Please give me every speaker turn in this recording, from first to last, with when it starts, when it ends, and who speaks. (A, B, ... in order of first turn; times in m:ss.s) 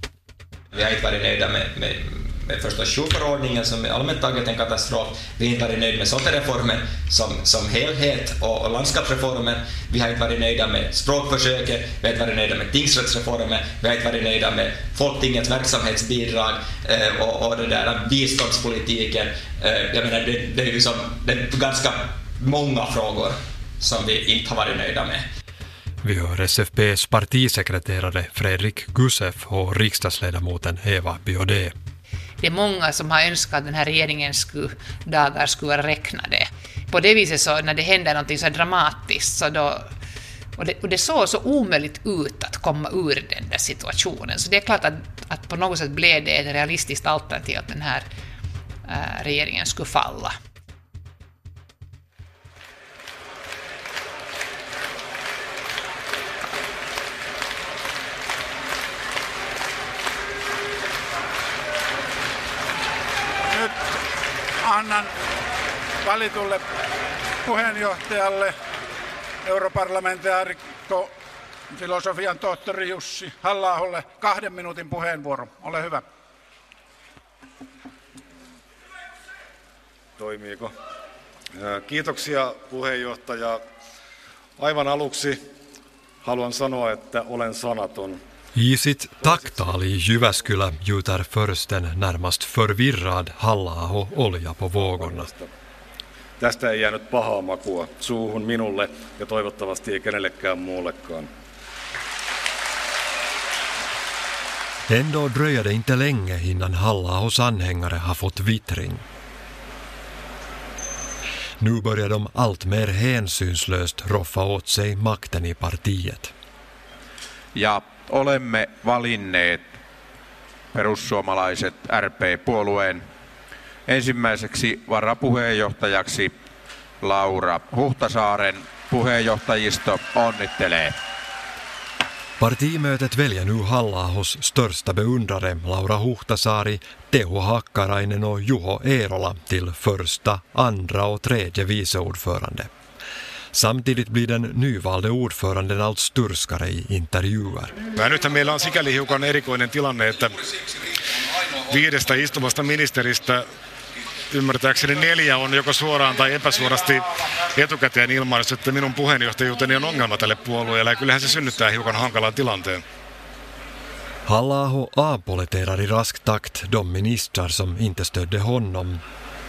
0:00.7-0:25.3 A
0:26.0-0:31.7 B
0:32.4-0:39.9 C
0:40.6-0:48.1 C
0:48.9-0:50.3 C
1:03.5-1:03.8 D
1:04.6-1:05.1 D
1:06.0-1:06.6 D
1:07.4-1:08.5 D
1:09.4-1:11.1 D
1:11.7-1:16.0 D
1:20.2-1:20.7 E
1:21.6-1:23.6 E
1:24.6-1:25.4 E
1:26.2-1:28.2 E
1:28.6-1:35.3 B
1:34.8-1:35.5 E
1:36.4-1:41.3 E
1:44.9-1:49.0 B
1:51.6-1:56.3 B
1:57.6-1:59.8 F
2:00.7-2:03.1 F
2:03.9-2:06.4 F
2:07.0-2:11.0 F
2:12.4-2:22.7 B
2:23.5-2:27.8 B
2:28.0-2:30.4 G
2:31.7-2:33.4 G
2:34.3-2:42.8 G
2:44.3-2:49.0 B